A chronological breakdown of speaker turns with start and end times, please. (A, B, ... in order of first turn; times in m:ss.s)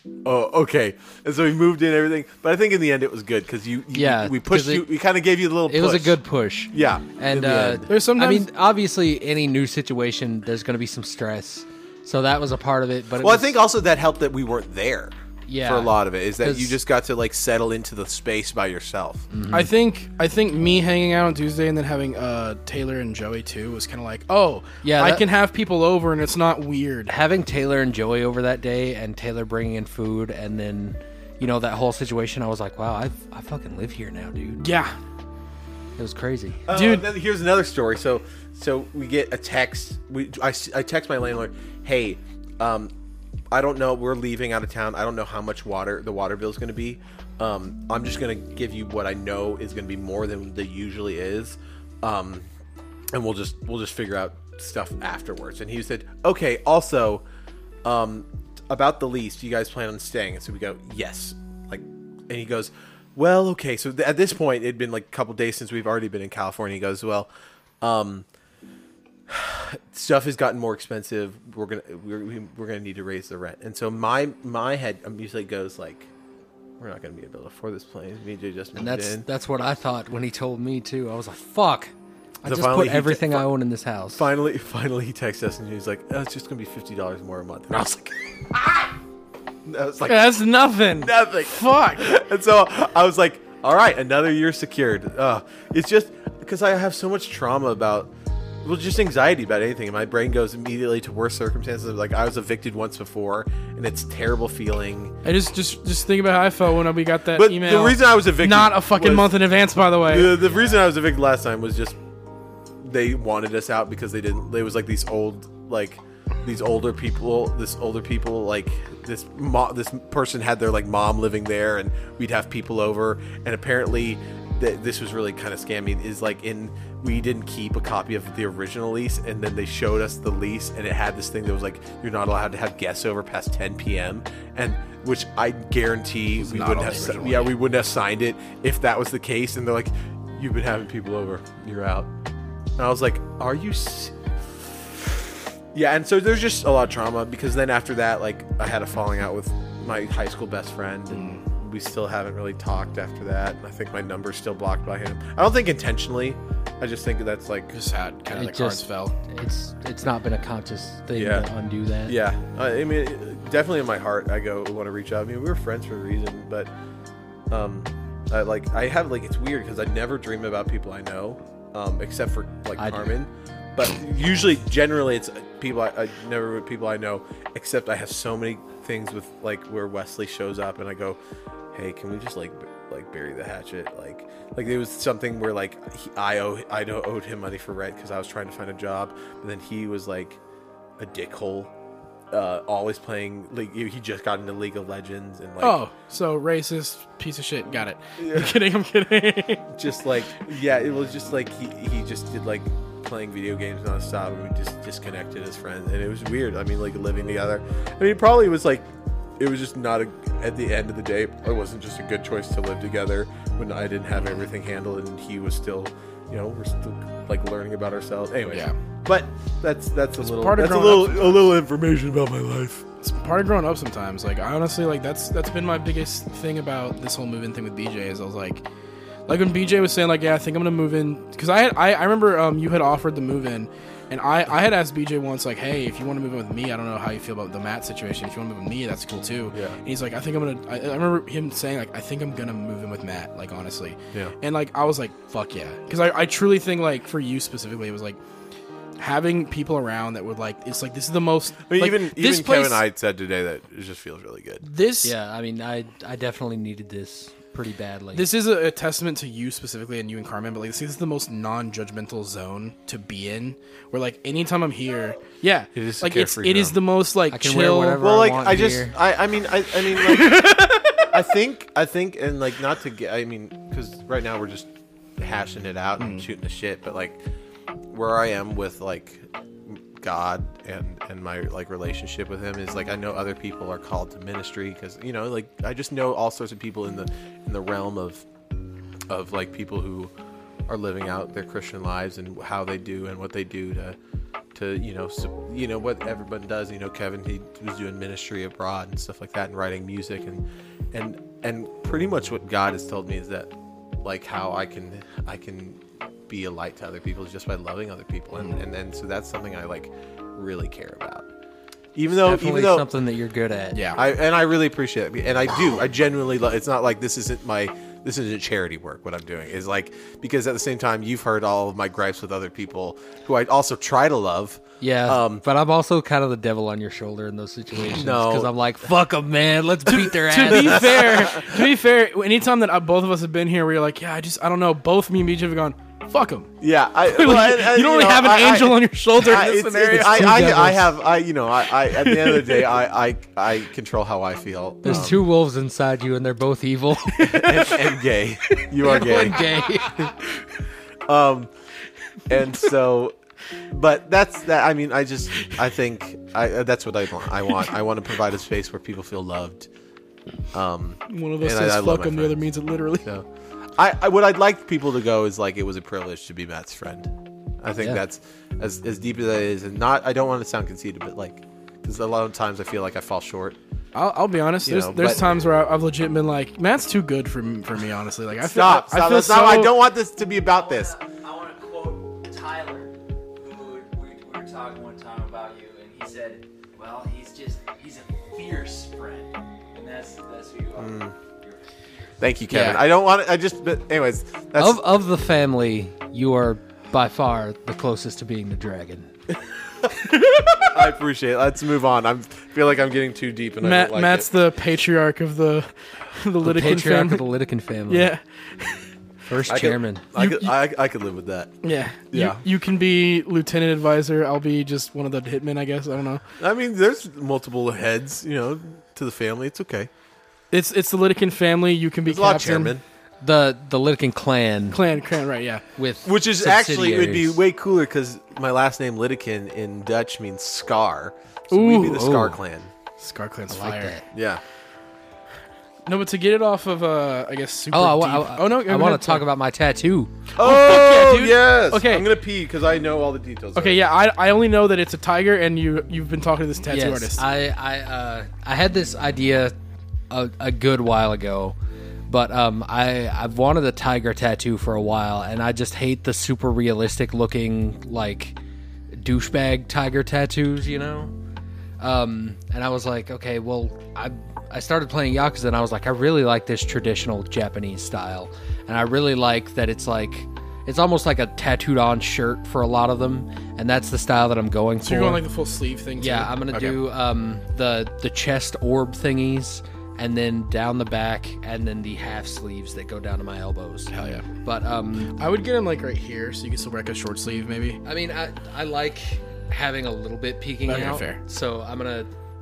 0:00.2-0:06.2 A
0:03.9-0:04.9 B
0:05.7-0:13.6 B
0:06.7-0:07.9 A
0:07.9-0:08.5 C
0:13.2-0:19.3 A
0:15.4-0:16.8 B
0:19.3-0:19.7 B
0:19.5-0:27.2 C
0:24.8-0:25.2 B
0:27.1-0:34.6 B
0:34.6-0:34.9 C
0:36.0-0:36.6 B
0:36.7-0:42.9 A
0:36.7-0:37.1 C
0:43.5-0:52.5 A
0:53.1-0:57.2 A
0:57.8-1:07.3 A
1:07.8-1:08.3 A
1:09.3-1:16.1 A
1:16.8-1:19.3 A
1:18.7-1:21.9 B
1:22.4-1:23.5 A
1:22.4-1:24.2 B
1:24.1-1:28.9 A
1:29.6-1:30.4 A
1:30.0-1:32.1 C
1:30.9-1:38.1 A
1:38.6-1:45.1 A
1:45.2-1:50.4 C
1:47.3-1:49.4 A
1:50.1-1:52.0 A
1:52.8-2:22.1 A
2:16.4-2:17.5 C
2:22.8-2:37.7 A
2:31.1-2:31.4 C
2:37.7-2:39.1 C
2:38.3-2:42.2 B
2:41.1-2:41.5 A
2:42.1-2:46.7 A
2:47.5-3:01.2 A
2:52.8-2:53.1 B
3:01.7-3:10.4 A
3:11.0-3:11.7 A
3:12.3-3:15.8 A
3:15.6-3:19.8 C
3:18.2-3:18.5 A
3:19.7-3:42.8 A
3:40.2-3:41.5 C
3:43.0-3:48.6 C
3:49.3-4:08.2 C
3:59.5-3:59.8 A
4:09.0-4:12.8 C
4:11.7-4:14.7 A
4:14.6-4:15.1 C
4:15.0-4:18.3 B
4:18.1-4:28.0 C
4:25.7-4:26.8 A
4:27.3-4:28.9 B
4:28.0-4:30.5 A
4:29.9-4:31.1 C
4:31.1-4:37.2 A
4:36.0-4:36.2 C
4:37.9-4:48.3 A
4:49.1-4:50.1 A
4:50.7-4:54.0 A
4:54.5-5:11.3 A
5:11.9-5:12.9 A
5:12.2-5:13.8 B
5:13.7-5:14.0 C
5:14.0-5:25.4 A
5:24.8-5:31.2 B
5:27.9-5:28.5 A
5:29.8-5:36.5 C
5:30.5-5:31.7 A
5:36.6-5:45.2 A
5:37.1-5:40.7 C
5:39.9-5:40.9 B
5:41.9-5:42.7 C
5:44.8-5:47.6 B
5:47.1-5:48.0 C
5:47.3-5:49.4 A
5:48.5-5:49.9 C
5:48.8-5:50.1 B
5:51.1-5:51.5 A
5:52.3-5:53.2 A
5:53.7-5:59.7 A
6:00.5-6:02.4 A
6:01.1-6:03.1 C
6:03.0-6:13.6 A
6:13.9-6:19.8 C
6:14.6-6:15.2 A
6:18.4-6:20.9 A
6:20.4-6:32.2 D
6:30.8-6:31.1 A
6:32.2-6:34.9 A
6:32.5-6:32.8 C
6:34.6-6:39.1 B
6:40.0-6:40.8 C
6:40.7-6:44.3 A
6:43.6-6:47.3 C
6:46.4-6:48.1 B
6:47.9-6:48.9 C
6:49.3-6:50.0 B
6:49.4-6:51.5 A
6:50.2-6:50.5 C
6:51.6-6:56.2 C
6:52.1-6:52.4 A
6:56.4-6:59.9 A
7:00.5-7:02.7 C
7:02.0-7:02.8 A
7:03.2-7:04.8 B
7:04.7-7:05.6 C
7:05.8-7:07.4 B
7:06.0-7:12.7 A
7:11.5-7:12.2 C
7:11.9-7:12.3 B
7:13.0-7:13.9 C
7:13.5-7:14.0 B
7:14.1-7:14.4 A
7:15.8-7:19.2 C
7:17.7-7:20.1 B
7:20.4-7:23.8 A
7:20.4-7:22.1 C
7:23.6-7:27.2 C
7:26.7-7:29.6 B
7:30.1-7:31.6 B
7:32.1-7:38.4 B
7:38.9-7:41.1 B
7:41.8-7:55.2 B
7:54.8-7:56.8 C
7:56.0-8:03.9 B
8:03.9-8:04.3 C
8:04.4-8:05.2 B
8:05.2-8:07.8 C
8:07.8-8:12.1 B
8:10.6-8:11.2 C